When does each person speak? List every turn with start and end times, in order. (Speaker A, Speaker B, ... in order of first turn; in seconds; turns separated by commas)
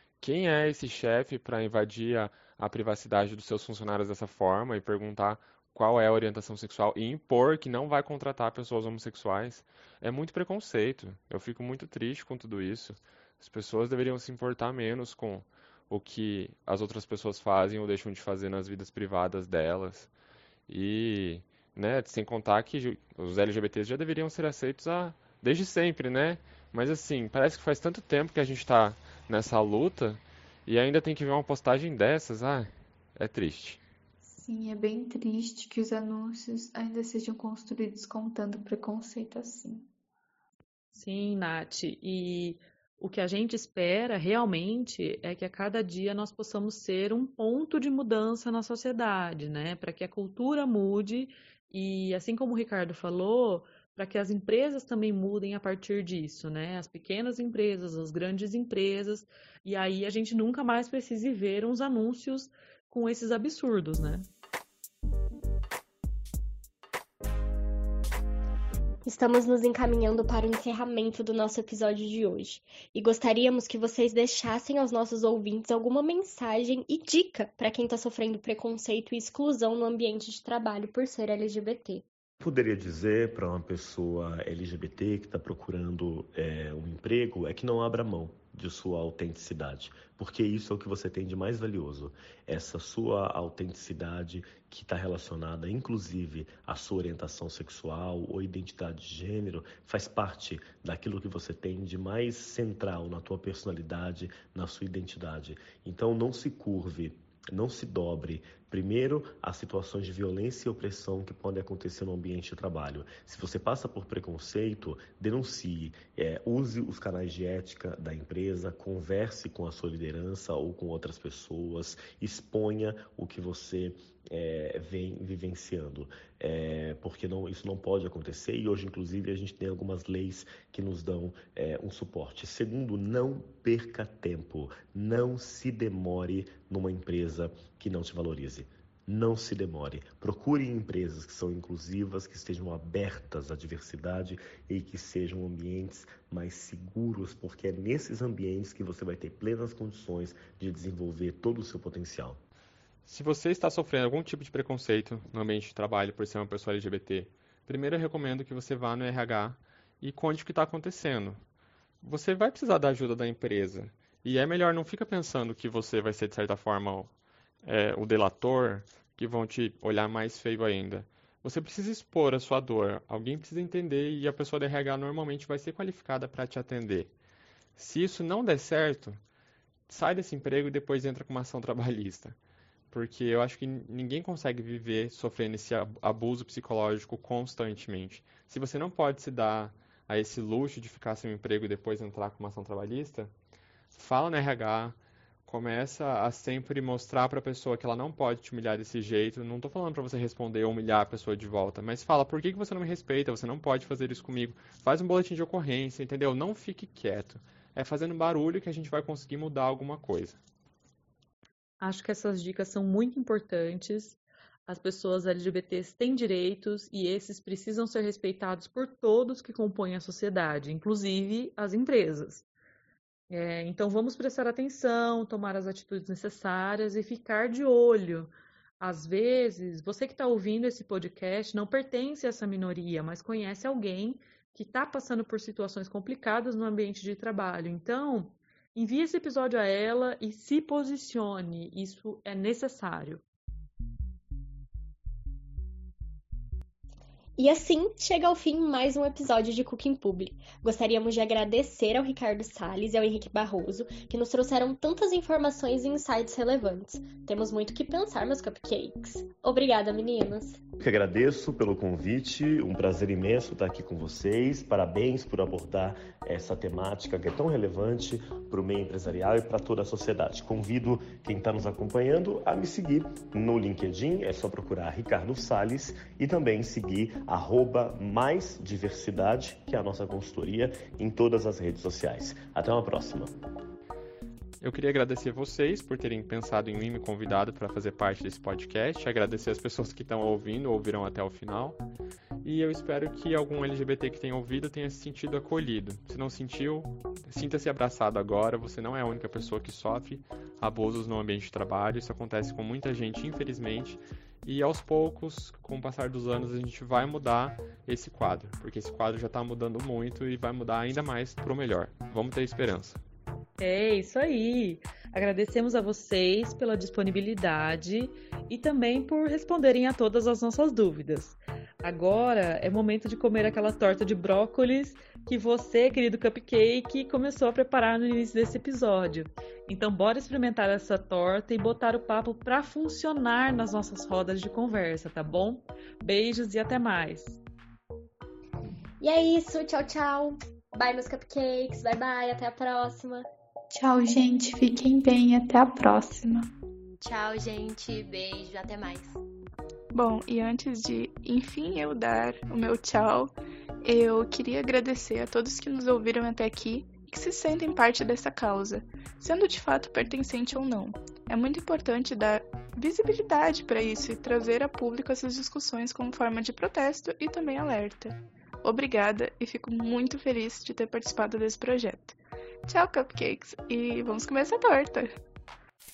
Speaker A: 0.2-20.1, Speaker A: 20.7-33.8, Speaker B: 34.2-39.9, Speaker C: 40.9-64.3, Speaker D: 69.0-82.0, Speaker E: 82.4-152.4, Speaker A: 153.0-161.4, Speaker A: 162.0-167.1, Speaker A: 167.6-177.1, Speaker A: 177.8-179.2, Speaker A: 179.9-182.4, Speaker A: 182.9-193.3, Speaker A: 193.9-210.4, Speaker C: 211.8-222.4, Speaker C: 223.3-243.2, Speaker D: 247.4-260.6, Speaker E: 260.8-283.4, Speaker A: 284.6-291.8, Speaker A: 292.4-313.0, Speaker C: 313.6-337.4, Speaker D: 339.0-343.3, Speaker B: 343.7-346.5, Speaker F: 347.0-349.2, Speaker G: 349.9-375.2